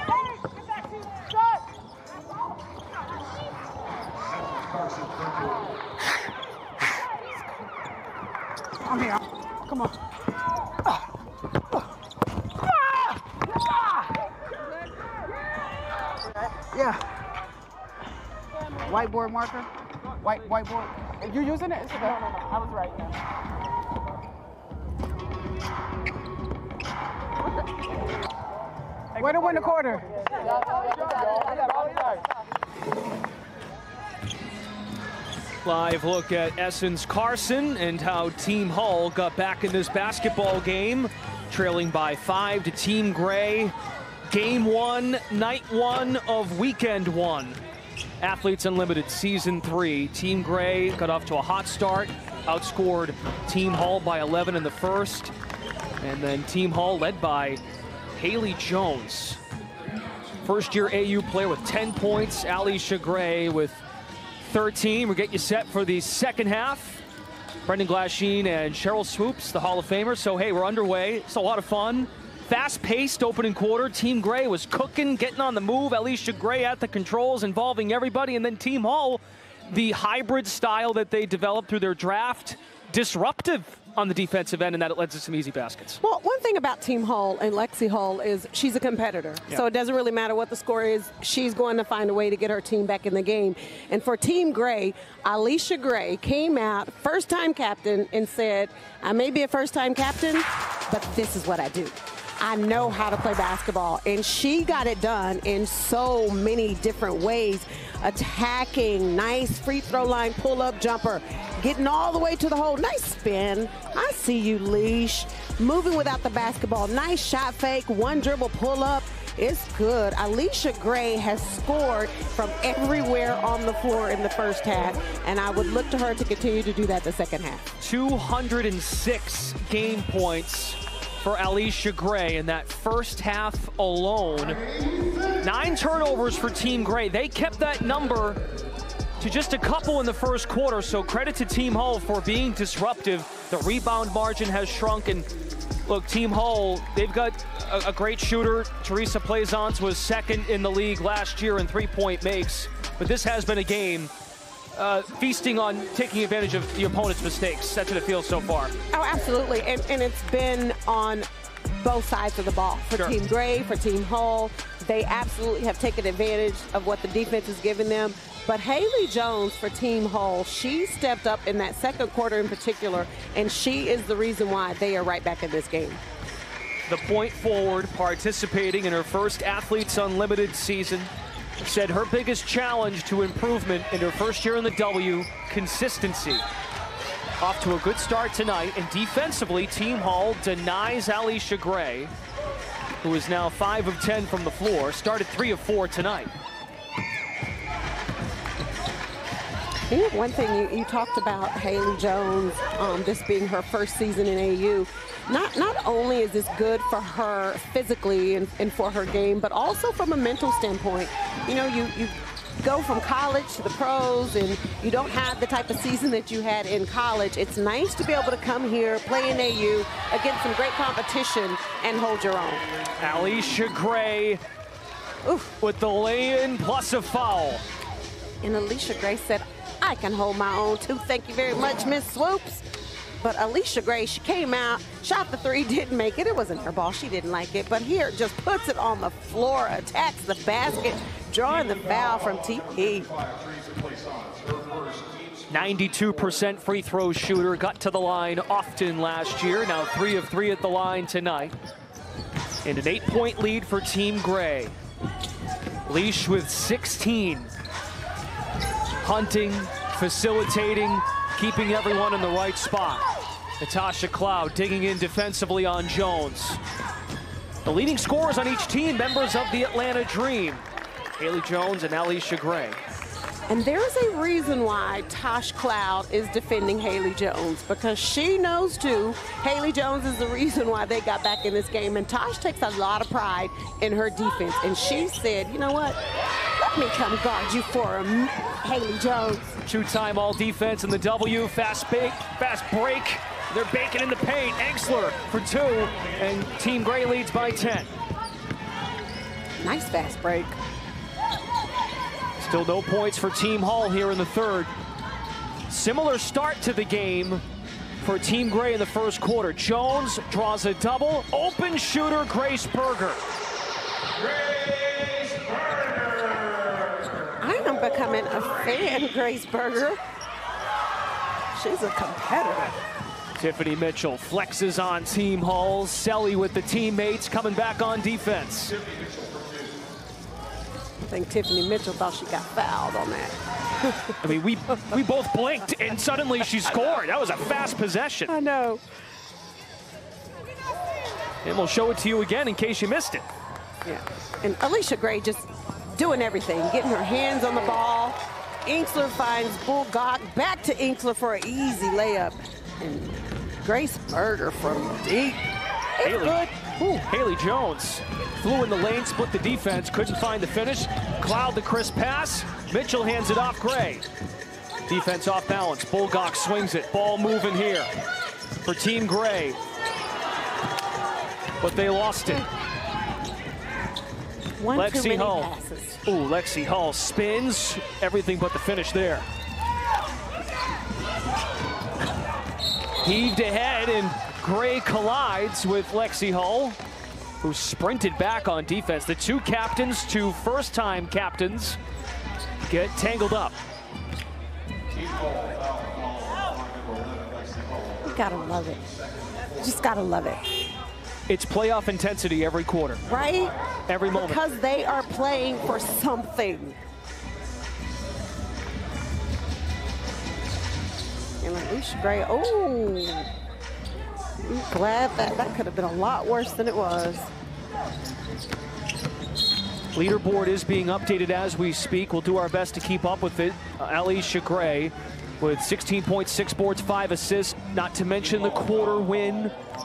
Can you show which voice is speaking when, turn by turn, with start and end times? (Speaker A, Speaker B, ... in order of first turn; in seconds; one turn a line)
Speaker A: 8.9-9.9
Speaker A: 16.6-17.0
Speaker A: 18.9-19.7
Speaker A: 20.2-23.0
Speaker A: 29.2-30.1
Speaker A: 31.6-31.9
Speaker B: 35.6-43.7
Speaker B: 44.3-47.6
Speaker B: 48.2-55.3
Speaker B: 56.0-57.6
Speaker B: 58.2-59.4
Speaker B: 60.4-63.8
Speaker B: 64.4-67.0
Speaker B: 67.7-86.0
Speaker C: 86.0-127.7
Speaker B: 127.8-134.6
Speaker B: 135.4-138.4
Speaker B: 139.2-145.3
Speaker B: 145.9-154.1
Speaker B: 154.7-158.7
Speaker C: 158.9-161.3
Speaker C: 161.8-176.0
Speaker B: 176.9-186.4
Speaker B: 187.4-192.1
Speaker B: 193.0-196.3
Speaker C: 199.9-222.7
Speaker B: 223.0-224.4
Speaker C: 225.2-225.5
Speaker B: 225.6-227.6
Speaker C: 228.4-232.6
Speaker C: 233.2-243.1
Speaker B: 245.5-251.6
Speaker B: 252.6-254.7
Speaker B: 255.9-257.5
Speaker B: 259.0-263.1
Speaker B: 263.6-266.6
Speaker B: 267.6-272.8
Speaker C: 273.5-286.0
Speaker C: 286.6-289.6
Speaker B: 289.6-297.9
Speaker C: 299.6-300.6
Speaker B: 302.4-304.7
Speaker B: 305.7-307.4
Speaker B: 308.0-313.2
Speaker C: 317.4-320.0
Speaker C: 321.5-322.8
Speaker B: 323.4-328.8
Speaker C: 331.1-333.4
Speaker B: 334.2-338.4
Speaker C: 338.3-338.8
Speaker B: 341.4-343.3
Speaker C: 343.8-356.5
Speaker B: 356.0-364.1
Speaker B: 364.9-367.9
Speaker B: 368.6-369.6
Speaker B: 371.6-372.4
Speaker C: 374.6-376.0
Speaker B: 374.7-375.5
Speaker B: 376.1-379.3
Speaker B: 383.0-386.8
Speaker B: 387.4-391.8
Speaker B: 392.7-393.6
Speaker C: 398.0-398.8
Speaker C: 399.6-400.5
Speaker B: 401.3-403.0
Speaker C: 403.1-403.5
Speaker B: 403.9-404.4
Speaker C: 404.1-406.8
Speaker C: 411.4-413.3
Speaker C: 414.4-417.3
Speaker B: 419.9-429.5